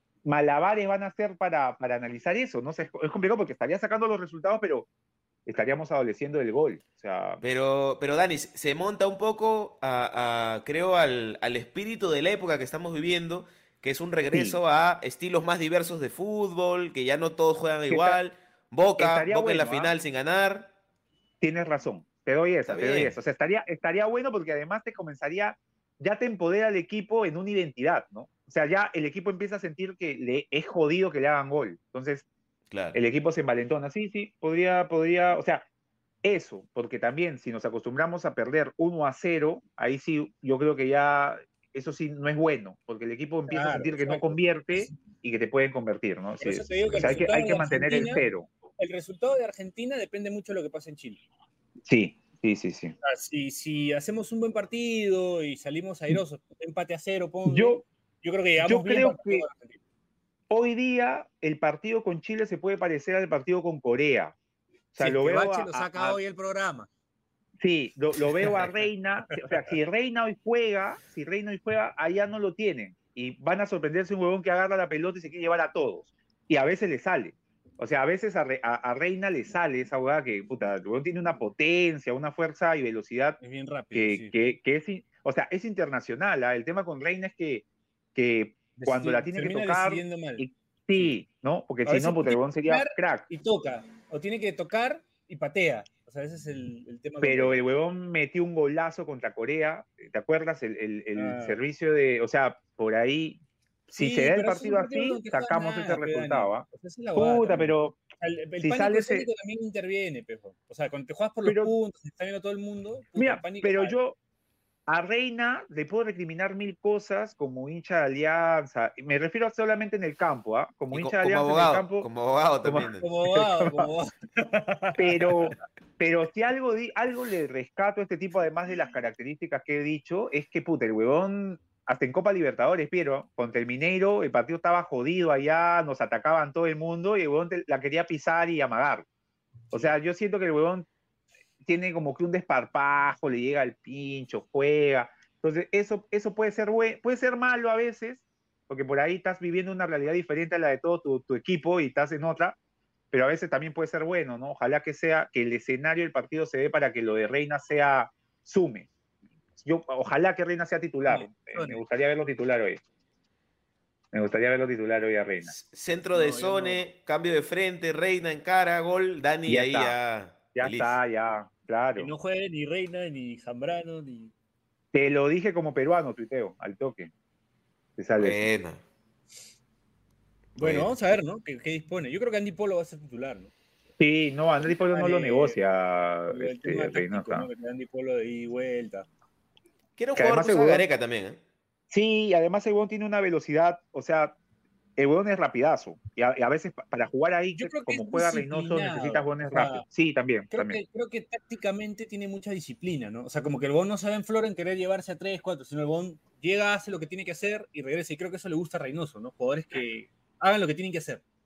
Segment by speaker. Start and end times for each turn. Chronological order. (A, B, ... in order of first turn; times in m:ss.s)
0:00.2-0:04.9 A
0:05.4-0:07.4 A
0:07.4-0:20.7 B
0:14.3-0:14.6 A
0:17.9-0:18.2 A
0:19.0-0:19.9 A
0:21.4-0:32.2 A
0:22.7-0:23.2 B
0:32.7-0:33.0 B
0:32.9-0:35.6 A
0:36.2-0:48.5 A
0:43.5-0:44.9 C
0:46.4-0:48.2 C
0:48.8-0:51.2 C
0:51.8-0:52.9 A
0:53.0-0:59.8 C
0:57.5-0:57.8 A
0:58.6-0:59.5 A
1:00.5-1:04.4 A
1:04.9-1:06.2 A
1:05.0-1:06.9 C
1:07.6-1:23.4 A
1:08.4-1:08.7 C
1:23.4-1:24.5 C
1:23.9-1:33.2 A
1:28.8-1:31.2 C
1:31.8-1:37.6 C
1:37.2-1:48.0 A
1:41.1-1:41.6 C
1:43.9-1:54.0 C
1:48.6-1:49.3 A
1:51.4-1:51.7 A
1:53.2-1:54.2 A
1:54.9-2:02.1 A
2:00.9-2:03.1 B
2:02.6-2:03.9 A
2:03.0-2:05.5 C
2:05.0-2:19.0 A
2:19.7-2:20.8 A
2:21.6-2:32.6 A
2:33.1-2:38.9 A
2:39.6-2:42.8 A
2:41.0-2:41.8 C
2:44.1-2:45.5 A
2:45.4-2:51.0 B
2:46.1-2:46.8 C
2:49.4-2:50.0 A
2:50.6-2:52.1 A
2:52.0-2:54.3 C
2:54.9-2:57.1 A
2:58.0-2:58.5 A
2:58.2-2:58.8 B
3:00.6-3:01.2 B
3:00.6-3:03.5 C
3:04.0-3:07.5 A
3:04.6-3:05.6 C
3:06.3-3:09.1 C
3:10.0-3:11.4 B
3:10.1-3:10.8 A
3:11.9-3:14.4 A
3:15.0-3:20.8 A
3:17.5-3:19.8 C
3:20.5-3:31.2 C